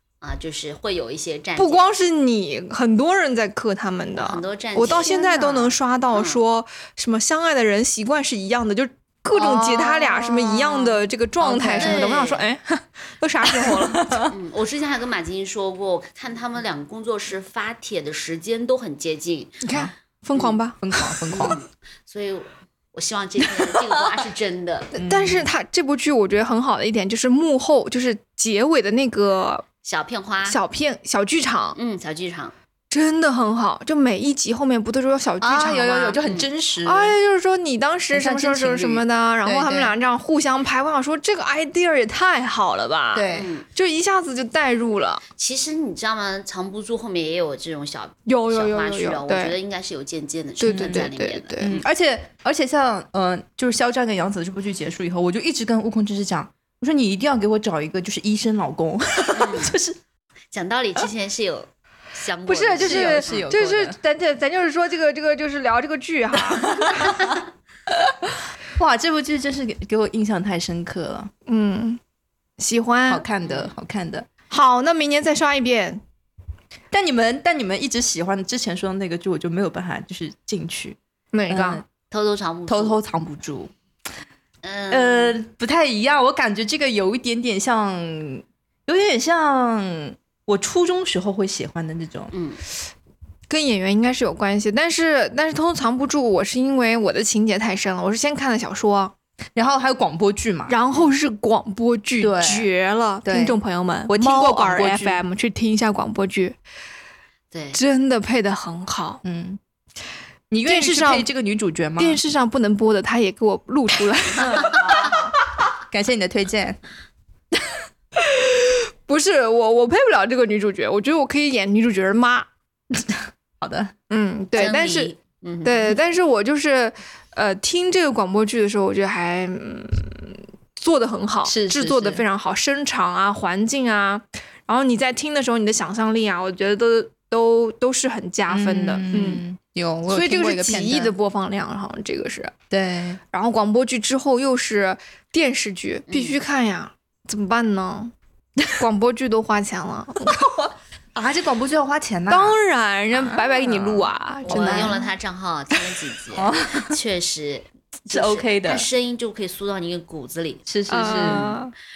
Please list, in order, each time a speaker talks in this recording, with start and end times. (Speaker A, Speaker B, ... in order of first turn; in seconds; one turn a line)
Speaker A: 0.2-1.9
Speaker B: 1.6-14.2
Speaker A: 4.2-6.4
Speaker A: 9.4-11.0
Speaker C: 11.4-12.1
Speaker A: 11.8-12.4
Speaker C: 13.6-14.3
Speaker A: 14.3-19.6
Speaker B: 19.6-21.2
Speaker C: 20.8-21.6
Speaker A: 21.3-24.9
Speaker C: 23.6-24.2
Speaker B: 24.9-29.6
Speaker C: 25.0-25.5
Speaker A: 29.8-30.6
Speaker B: 30.5-31.8
Speaker A: 31.8-32.5
Speaker B: 32.9-36.2
Speaker C: 35.4-37.2
Speaker A: 36.2-36.5
Speaker B: 36.9-45.2
Speaker C: 38.1-40.0
Speaker C: 43.1-43.5
Speaker A: 43.3-43.7
Speaker A: 45.4-51.9
Speaker B: 48.3-49.5
Speaker B: 50.6-51.8
Speaker C: 50.7-51.1
Speaker C: 51.6-60.0
Speaker A: 59.3-59.7
Speaker A: 60.5-63.5
Speaker B: 62.5-67.4
Speaker C: 62.8-64.0
Speaker C: 66.6-67.4
Speaker C: 67.9-71.3
Speaker B: 71.5-72.0
Speaker B: 72.6-73.2
Speaker C: 73.1-74.3
Speaker A: 73.4-73.7
Speaker B: 74.5-76.0
Speaker C: 76.9-81.0
Speaker B: 81.3-81.8
Speaker C: 81.5-81.8
Speaker A: 82.1-83.0
Speaker C: 82.7-83.7
Speaker A: 84.6-85.4
Speaker C: 84.9-92.3
Speaker A: 92.3-92.6
Speaker B: 93.5-99.1
Speaker C: 99.5-100.8
Speaker B: 100.7-106.6
Speaker C: 102.2-102.7
Speaker C: 103.2-103.6
Speaker C: 104.1-105.2
Speaker A: 107.5-107.8
Speaker B: 107.7-109.2
Speaker C: 109.2-109.6
Speaker C: 110.5-112.2
Speaker B: 110.7-111.3
Speaker B: 112.0-115.1
Speaker C: 114.4-116.8
Speaker B: 118.2-122.5
Speaker C: 122.9-123.9
Speaker B: 124.1-139.4
Speaker A: 124.6-126.0
Speaker C: 131.4-132.2
Speaker C: 138.5-141.2
Speaker B: 140.1-142.5
Speaker C: 142.7-143.2
Speaker B: 143.3-148.1
Speaker A: 146.1-146.4
Speaker B: 148.8-150.4
Speaker C: 150.2-152.6
Speaker B: 152.3-155.1
Speaker C: 153.1-155.0
Speaker A: 154.4-161.5
Speaker C: 156.3-157.0
Speaker C: 158.1-158.9
Speaker C: 160.7-161.6
Speaker B: 160.9-161.7